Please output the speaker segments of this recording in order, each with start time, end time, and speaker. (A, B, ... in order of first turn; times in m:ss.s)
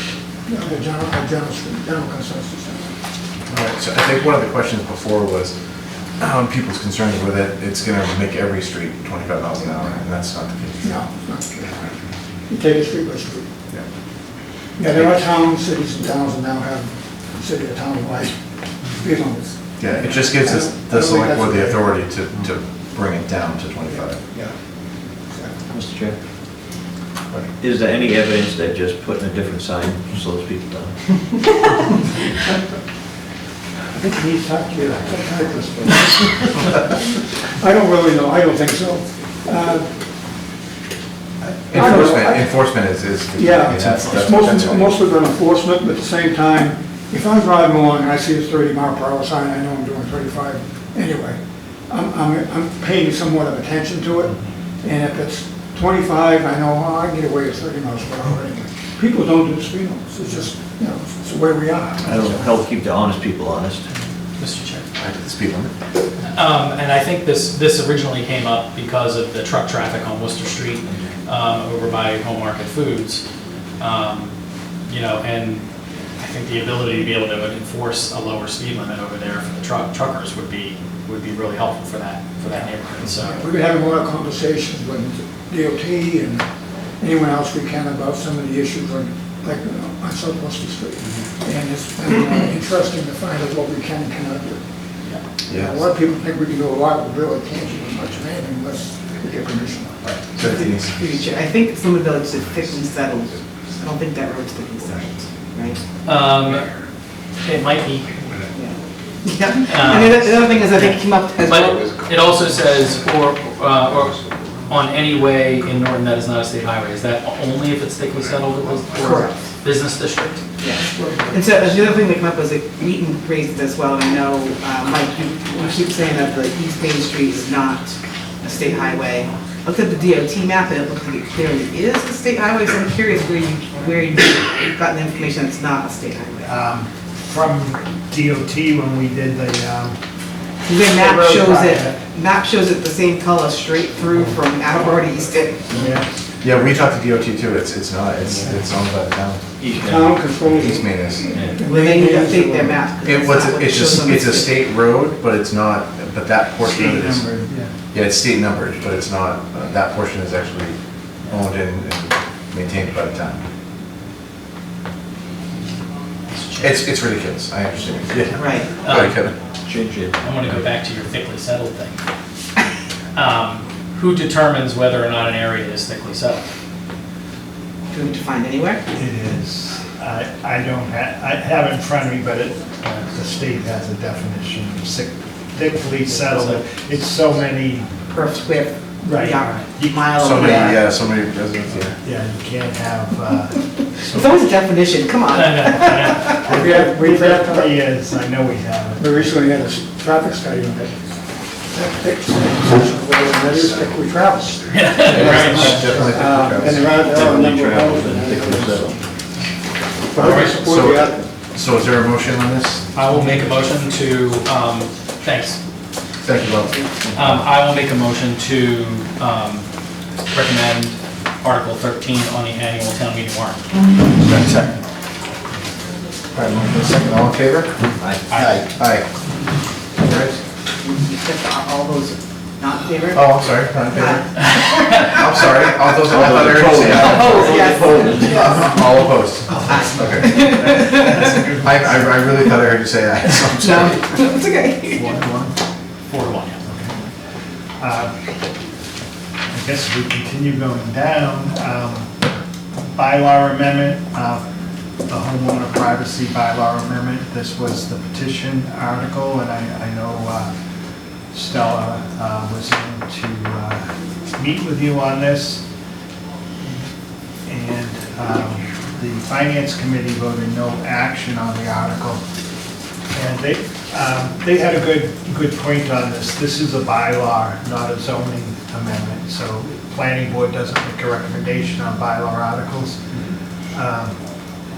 0:00.5-0:03.0 A
0:03.5-0:05.5 B
0:06.2-0:10.9 B
0:10.8-0:11.7 A
0:12.5-0:13.5 A
0:14.8-0:18.4 A
0:19.0-0:22.0 A
0:19.8-0:24.3 B
0:25.7-0:26.2 C
0:27.6-0:31.0 C
0:34.0-0:39.9 A
0:41.4-0:45.0 B
0:41.7-0:42.5 A
0:43.4-1:02.5 A
1:02.0-1:03.8 C
1:04.4-1:04.9 D
1:05.0-1:05.7 B
1:06.3-1:13.2 D
1:13.8-1:14.3 D
1:14.9-1:15.6 D
1:16.2-1:23.4 D
1:23.2-1:26.5 A
1:27.0-1:34.6 A
1:31.0-1:31.3 D
1:35.5-1:40.0 A
1:40.3-1:41.3 B
1:40.4-1:45.8 E
1:46.0-1:46.7 D
1:47.4-1:48.2 D
1:48.6-1:51.9 E
1:49.7-1:50.9 D
1:50.2-1:51.0 B
1:51.4-2:00.4 D
1:58.9-1:59.2 B
1:59.0-1:59.3 E
2:00.6-2:16.5 E
2:00.8-2:01.7 B
2:16.4-2:20.0 F
2:20.7-2:25.7 E
2:21.0-2:21.9 F
2:25.7-2:26.2 F
2:26.4-2:29.4 B
2:28.4-2:28.7 F
2:29.6-2:30.6 C
2:29.8-2:32.8 A
2:30.6-2:31.3 B
2:31.3-2:31.6 C
2:31.6-2:34.5 E
2:33.0-2:37.3 B
2:36.6-2:37.7 F
2:37.9-2:43.4 B
2:46.3-2:46.9 D
2:46.6-2:49.4 B
2:48.4-2:48.9 E
2:48.8-2:49.2 D
2:49.6-2:50.6 C
2:50.2-2:52.0 D
2:53.2-2:56.5 D
2:57.9-2:58.8 E
2:58.9-3:07.9 F
3:06.1-3:06.6 D
3:08.1-3:10.8 E
3:09.0-3:10.1 F
3:10.1-3:12.0 B
3:12.0-3:14.4 F
3:14.2-3:16.2 E
3:15.3-3:16.3 D
3:16.2-3:19.3 F
3:16.5-3:17.7 A
3:19.0-3:21.1 A
3:21.7-3:29.0 A
3:24.7-3:26.2 D
3:24.8-3:26.9 B
3:26.9-3:29.0 C
3:30.1-3:31.3 A
3:30.1-3:30.7 D
3:30.6-3:33.0 B
3:32.9-3:35.6 D
3:36.2-3:37.4 B
3:37.0-3:37.4 C
3:37.1-3:39.7 D
3:40.3-3:43.6 D
3:44.2-3:44.6 B
3:46.3-3:47.9 B
3:48.0-3:48.7 C
3:48.3-3:48.6 D
3:48.7-3:49.1 B
3:50.1-3:50.4 B
3:50.8-3:55.9 E
3:53.1-3:54.5 B
3:55.0-4:04.1 B
3:56.1-3:58.5 C
3:57.0-3:58.7 E
3:59.7-4:01.3 E
4:03.6-4:05.1 E
4:04.9-4:05.6 F
4:06.1-4:06.6 D
4:06.6-4:07.0 F
4:07.8-4:08.1 F
4:09.5-4:12.1 F
4:12.9-4:14.4 F
4:15.1-4:20.5 F
4:21.3-4:25.6 F
4:27.5-4:32.2 F
4:33.1-4:43.0 F
4:43.7-4:44.2 F